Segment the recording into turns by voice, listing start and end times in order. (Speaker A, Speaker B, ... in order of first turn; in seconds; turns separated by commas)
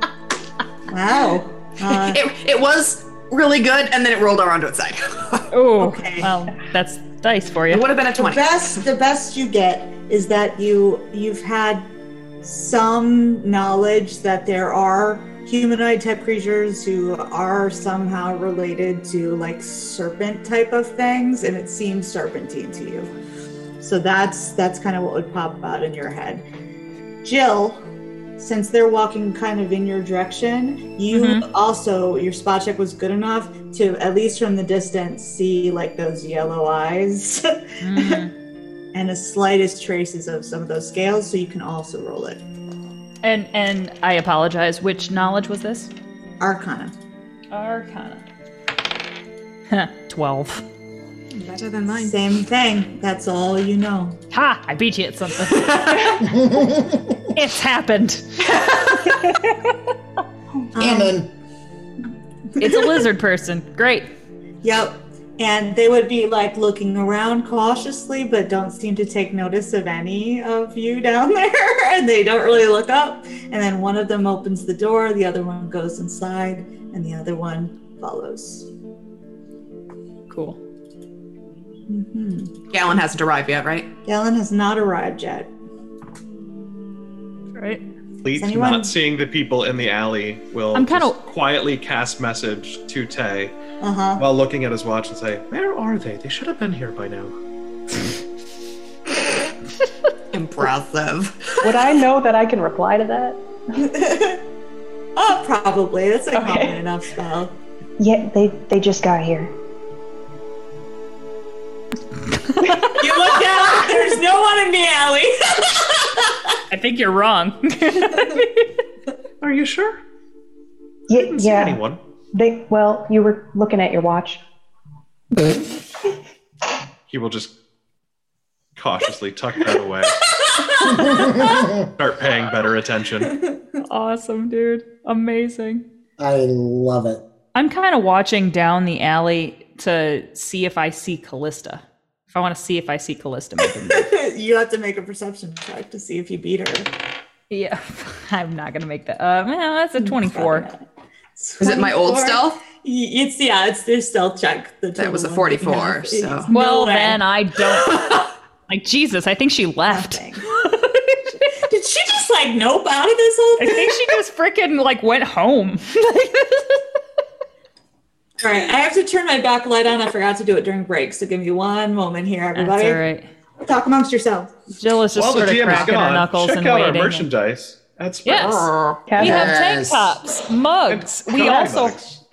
Speaker A: 0.9-2.2, Speaker B: 1.9-5.4, Speaker C: 5.5-7.8, Speaker A: 5.8-6.3, Speaker B: 7.7-8.8, Speaker A: 8.2-11.9, Speaker A: 12.4-23.1, Speaker A: 23.8-26.4, Speaker A: 27.2-27.8, Speaker A: 28.4-38.2, Speaker C: 31.1-31.5, Speaker C: 37.8-38.3, Speaker A: 38.9-42.4, Speaker C: 43.2-45.9, Speaker A: 46.4-46.9, Speaker C: 47.5-48.2, Speaker C: 49.7-50.6, Speaker B: 51.4-52.2, Speaker A: 51.9-54.2, Speaker C: 54.3-56.3, Speaker D: 56.2-57.2, Speaker C: 57.3-58.5, Speaker B: 58.5-59.0, Speaker C: 59.0-59.7, Speaker A: 60.8-61.2, Speaker D: 60.8-61.3, Speaker A: 62.6-63.0, Speaker C: 62.6-64.1, Speaker A: 64.6-78.7, Speaker C: 80.3-80.6, Speaker A: 81.9-82.5, Speaker B: 82.7-83.9, Speaker A: 84.1-85.5, Speaker C: 87.5-87.8, Speaker E: 88.2-93.5, Speaker A: 88.4-88.9, Speaker C: 90.7-91.2, Speaker A: 93.8-94.2, Speaker E: 94.2-97.3, Speaker B: 100.3-101.6, Speaker F: 101.6-103.4, Speaker A: 103.8-104.4, Speaker A: 105.2-107.5, Speaker F: 106.3-106.8, Speaker F: 108.0-109.5, Speaker A: 112.8-116.5, Speaker C: 116.7-118.7, Speaker E: 119.4-120.0, Speaker F: 121.1-121.8, Speaker E: 121.1-122.0, Speaker F: 122.3-124.4, Speaker E: 127.1-127.5, Speaker E: 128.8-130.2, Speaker E: 130.9-131.3, Speaker D: 130.9-131.7, Speaker E: 131.8-133.3, Speaker A: 133.4-133.6, Speaker C: 133.8-135.8, Speaker D: 136.2-137.2, Speaker C: 137.6-144.1, Speaker A: 143.9-146.9, Speaker C: 147.5-150.7, Speaker A: 150.0-150.8, Speaker A: 151.4-157.2, Speaker B: 151.6-152.6, Speaker B: 155.0-156.5, Speaker C: 156.5-161.0, Speaker A: 159.9-160.7, Speaker A: 161.5-164.2, Speaker C: 163.6-166.8, Speaker A: 168.4-173.0, Speaker C: 172.6-173.3, Speaker A: 173.6-174.5, Speaker C: 174.8-177.3, Speaker E: 175.2-178.7, Speaker C: 178.2-182.0, Speaker B: 178.4-179.0, Speaker F: 179.1-179.5, Speaker D: 179.2-180.2, Speaker E: 180.9-182.2